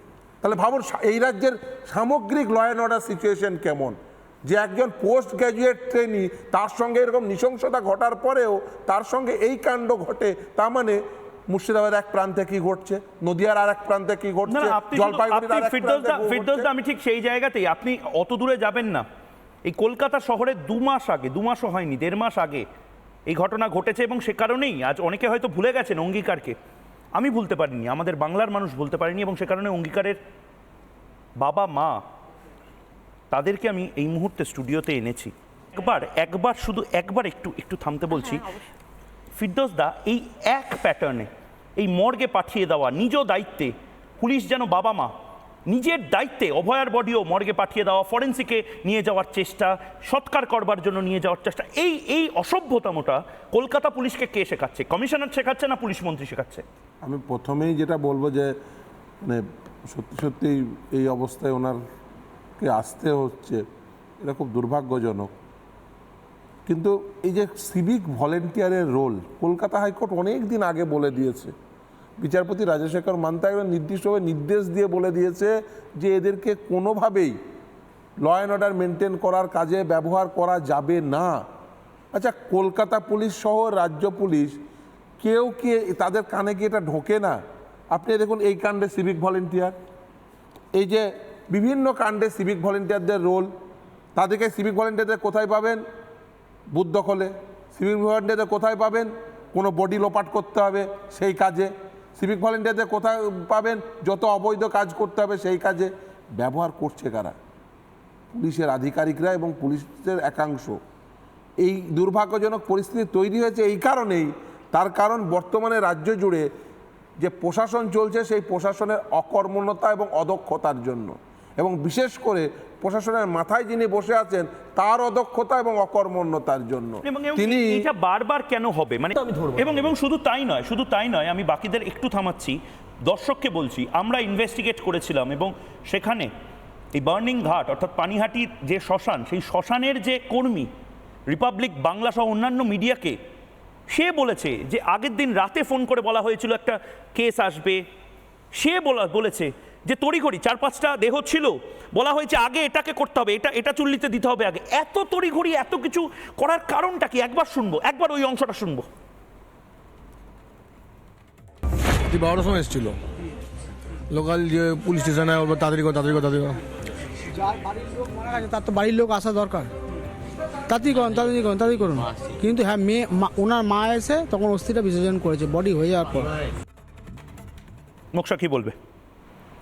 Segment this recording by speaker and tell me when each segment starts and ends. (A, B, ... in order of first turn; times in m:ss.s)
0:00.4-0:16.7 A
0:14.5-0:19.0 B
0:19.7-0:22.7 B
0:23.3-0:26.6 B
0:27.2-0:30.2 B
0:31.4-0:32.0 B
0:33.3-0:38.5 B
0:39.4-0:45.1 B
0:45.7-0:56.6 B
0:57.0-0:58.5 A
0:59.2-1:01.8 A
1:02.6-1:03.6 A
1:04.2-1:05.3 A
1:06.7-1:11.5 A
1:12.2-1:17.4 A
1:18.2-1:21.4 A
1:22.1-1:24.6 A
1:25.2-1:27.4 A
1:27.9-1:29.8 A
1:30.8-1:33.5 A
1:34.2-1:35.8 A
1:36.7-1:47.4 A
1:48.3-1:50.8 A
1:51.6-1:56.5 A
1:57.2-2:07.9 A
2:07.0-2:16.3 B
2:16.9-2:20.7 B
2:21.3-2:23.2 B
2:23.9-2:27.8 B
2:28.5-2:38.9 B
2:42.1-2:43.0 C
2:44.2-2:46.6 C
2:46.0-2:46.5 D
2:47.4-2:49.7 D
2:50.7-2:56.4 D
2:58.1-2:58.8 B